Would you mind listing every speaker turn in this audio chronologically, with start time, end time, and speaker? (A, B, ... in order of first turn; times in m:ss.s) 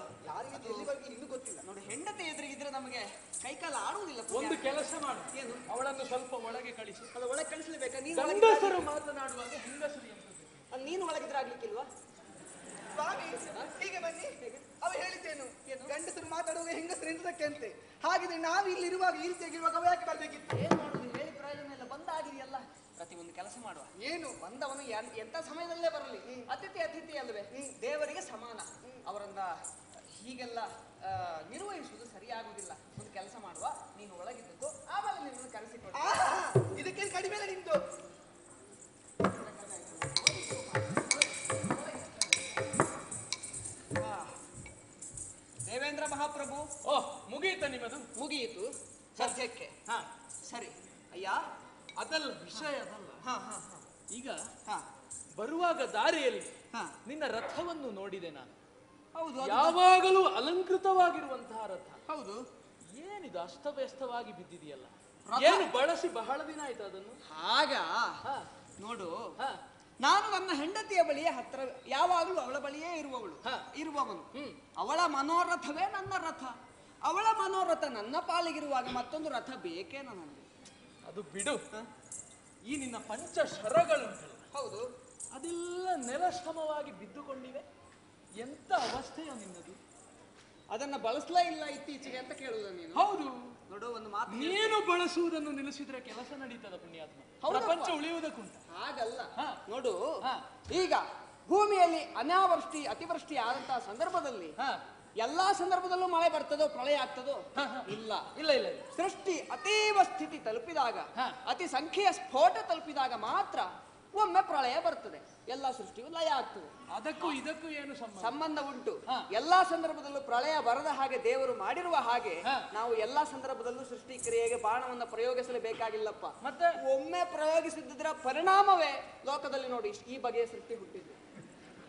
0:00.2-0:01.6 A
0:00.5-0:00.9 B
0:01.6-0:04.6 B
0:04.3-0:07.1 C
0:05.3-0:05.6 B
0:07.1-0:08.8 B
0:08.1-0:10.6 C
0:10.7-0:11.9 B
0:12.9-0:20.5 A
0:15.6-0:16.0 B
0:20.5-0:29.6 B
0:24.0-0:24.4 A
0:30.1-0:36.3 B
0:36.0-0:37.8 A
0:39.2-0:42.5 B
0:44.0-0:44.3 B
0:45.6-0:46.7 B
0:46.8-0:48.1 C
0:48.2-0:49.7 B
0:50.5-0:51.4 B
0:52.0-0:53.2 C
0:53.2-0:53.8 B
0:54.1-0:54.4 C
0:55.4-0:56.5 C
0:57.0-0:58.5 C
0:59.2-0:59.8 B
0:59.4-1:02.0 C
1:02.1-1:02.4 B
1:02.9-1:07.2 C
1:05.3-1:05.7 B
1:07.3-1:08.2 B
1:08.8-1:09.3 B
1:10.0-1:16.5 B
1:17.0-1:20.5 B
1:21.1-1:21.6 C
1:22.7-1:24.4 C
1:24.5-1:24.9 B
1:25.3-1:27.6 C
1:28.4-1:29.8 C
1:30.7-1:33.1 B
1:32.9-1:33.5 C
1:33.7-1:34.7 B
1:34.3-1:38.6 C
1:37.4-1:38.0 B
1:38.7-1:40.0 B
1:40.7-1:44.5 B
1:45.2-1:48.3 B
1:47.6-1:48.9 C
1:49.0-1:56.7 B
1:56.9-1:58.4 C
1:58.2-2:06.3 B
2:06.4-2:06.8 C
2:06.8-2:11.2 B